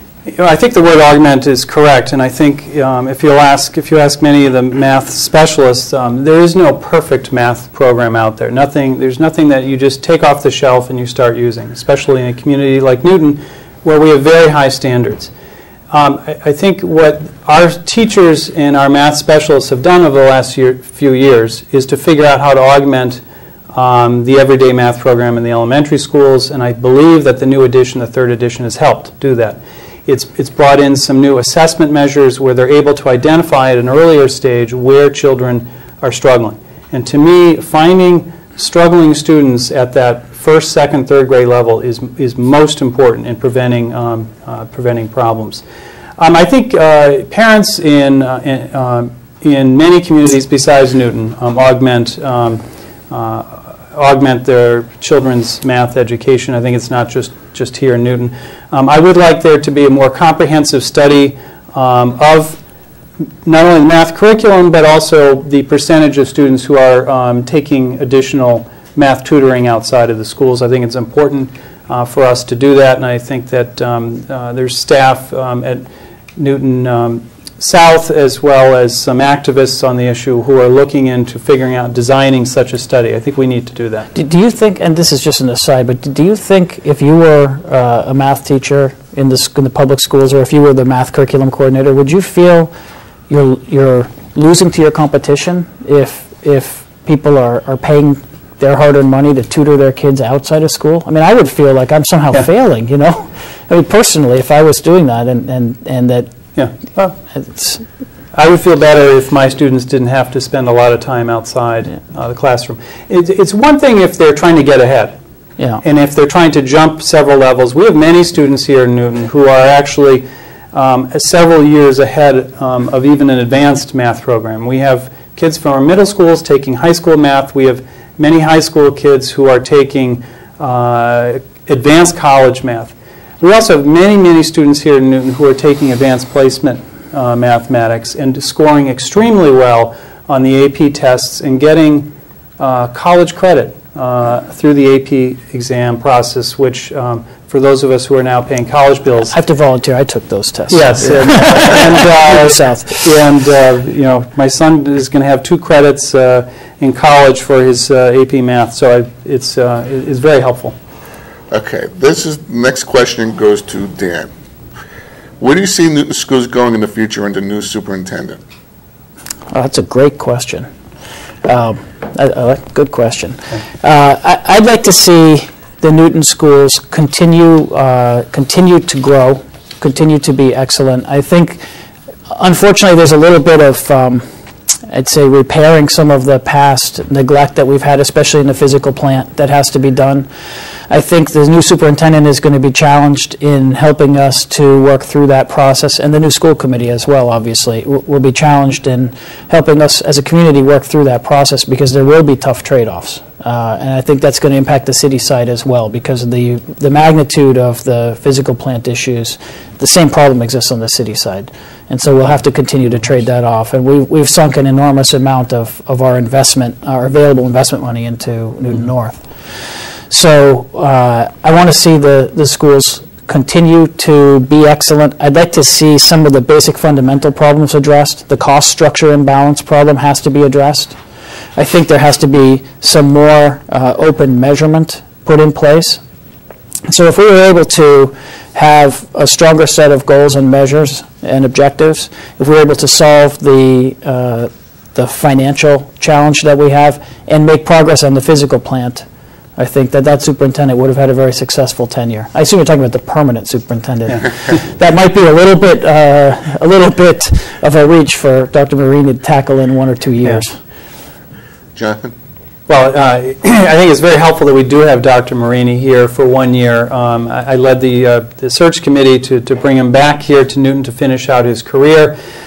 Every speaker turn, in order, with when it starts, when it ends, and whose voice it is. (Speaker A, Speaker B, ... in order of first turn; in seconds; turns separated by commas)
Speaker A: 0.3-15.3, Speaker A: 15.9-23.2, Speaker A: 23.7-45.6, Speaker A: 46.2-62.6, Speaker A: 63.4-75.8, Speaker A: 76.4-84.1, Speaker B: 84.1-92.7, Speaker B: 93.3-106.3, Speaker A: 106.5-107.2, Speaker B: 107.3-107.8, Speaker A: 108.3-115.2, Speaker A: 115.8-149.3, Speaker B: 149.3-153.2, Speaker A: 150.7-160.8, Speaker C: 161.5-164.3, Speaker C: 165.4-168.4, Speaker B: 169.5-170.7, Speaker B: 171.4-181.6, Speaker B: 182.3-184.2, Speaker B: 184.9-190.3, Speaker B: 190.9-219.3, Speaker B: 220.1-231.0, Speaker B: 231.6-236.0, Speaker B: 236.9-249.1, Speaker B: 249.6-260.6, Speaker C: 261.8-262.1, Speaker A: 262.7-272.1